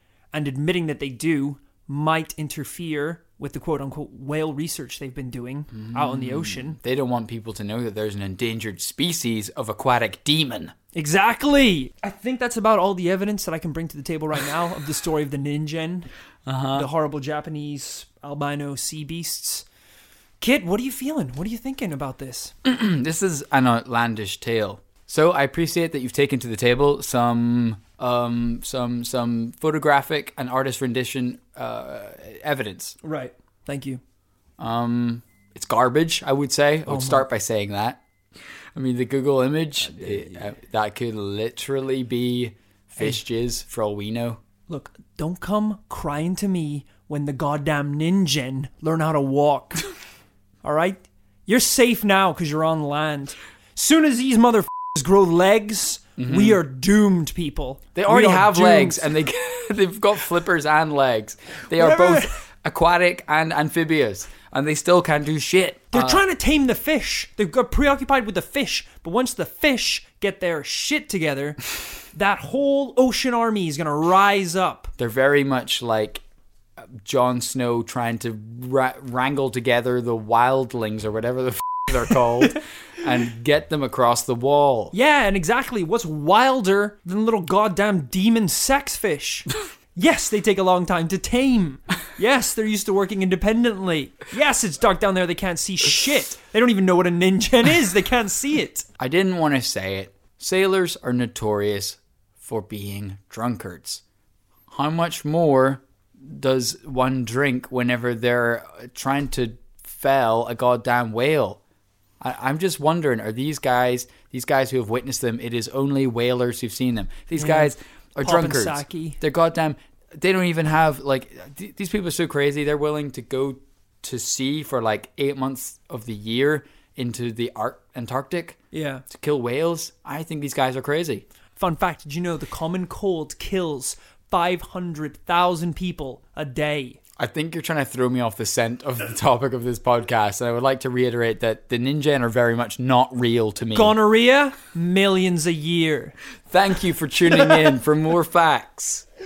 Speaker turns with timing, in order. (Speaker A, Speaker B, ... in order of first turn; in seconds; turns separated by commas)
Speaker A: 0.3-6.8, Speaker B: 5.7-10.8, Speaker A: 10.9-16.1, Speaker B: 16.5-16.9, Speaker A: 16.7-19.7, Speaker A: 20.4-22.5, Speaker B: 22.6-33.0, Speaker A: 33.0-34.0, Speaker B: 34.6-38.0, Speaker A: 36.9-37.3, Speaker B: 38.7-44.4, Speaker A: 39.9-40.3, Speaker A: 44.7-49.9, Speaker A: 50.6-59.1, Speaker B: 56.2-56.6, Speaker B: 58.0-66.2, Speaker A: 61.8-62.4, Speaker A: 65.9-71.6, Speaker A: 72.1-74.9, Speaker B: 75.0-76.2, Speaker B: 76.8-84.9, Speaker A: 84.9-98.9, Speaker B: 99.0-104.0, Speaker B: 104.7-111.6, Speaker B: 112.2-128.6, Speaker A: 117.3-119.2, Speaker A: 128.7-129.0, Speaker B: 129.1-131.3, Speaker A: 131.6-137.0, Speaker B: 137.2-144.0, Speaker A: 143.7-146.2, Speaker B: 146.5-149.1